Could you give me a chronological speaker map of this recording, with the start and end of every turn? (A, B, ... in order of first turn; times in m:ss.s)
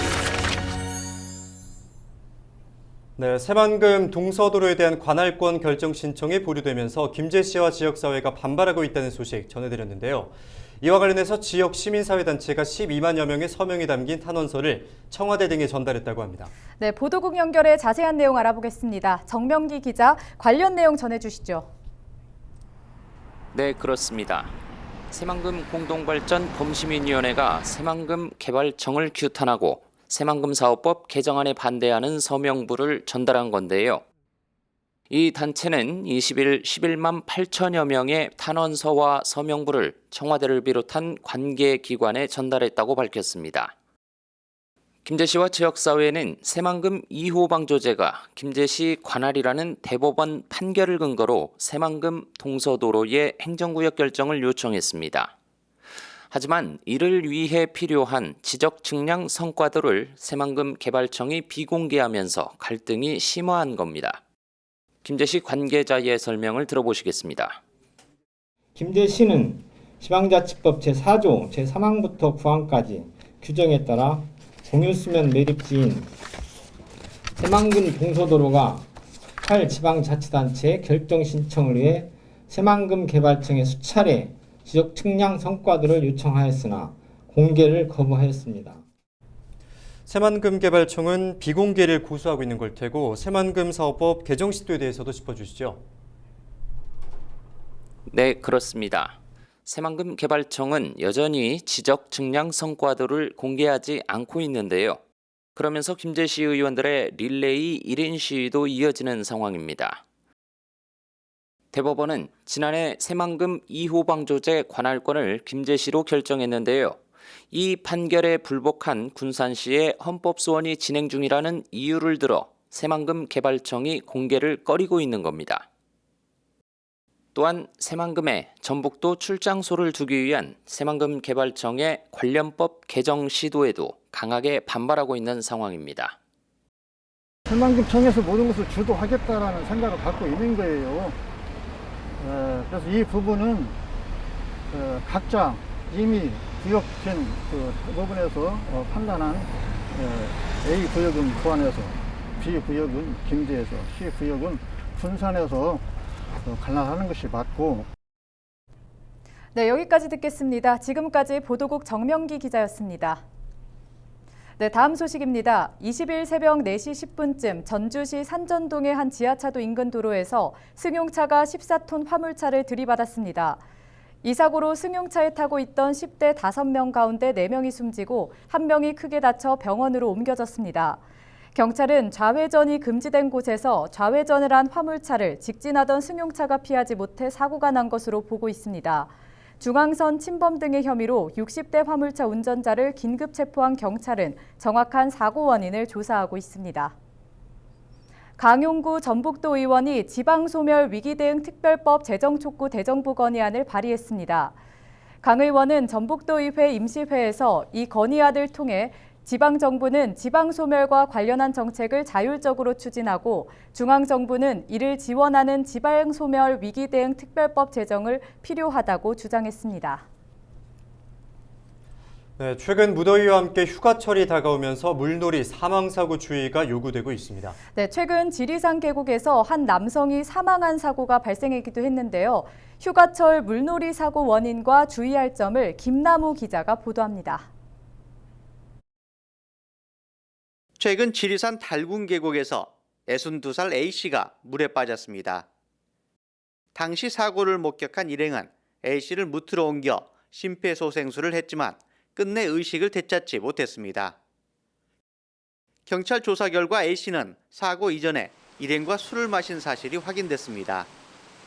0:03.2-0:16.5 A
0:16.8-0:21.7 B
0:23.5-0:24.5 C
0:25.1-0:34.0 C
0:35.1-0:43.7 C
0:45.0-0:55.3 C
0:56.3-1:04.2 C
1:05.0-1:07.6 C
1:08.8-1:16.1 D
1:17.4-1:18.9 D
1:19.4-1:28.8 D
1:30.1-1:35.8 A
1:38.1-1:45.0 C
1:45.6-1:50.0 C
1:51.7-1:57.0 C
1:57.5-2:05.7 C
2:07.4-2:16.2 C
2:17.5-2:21.2 E
2:22.2-2:23.8 E
2:24.7-2:35.8 E
2:36.4-2:37.9 E
2:39.5-2:43.2 B
2:44.6-2:53.6 B
2:54.2-3:01.0 B
3:01.5-3:17.0 B
3:18.4-3:24.6 B
3:25.2-3:40.0 B
3:42.4-3:47.6 A
3:47.8-3:57.5 B
4:00.8-4:05.5 F
4:06.8-4:14.2 F
4:15.9-4:20.9 F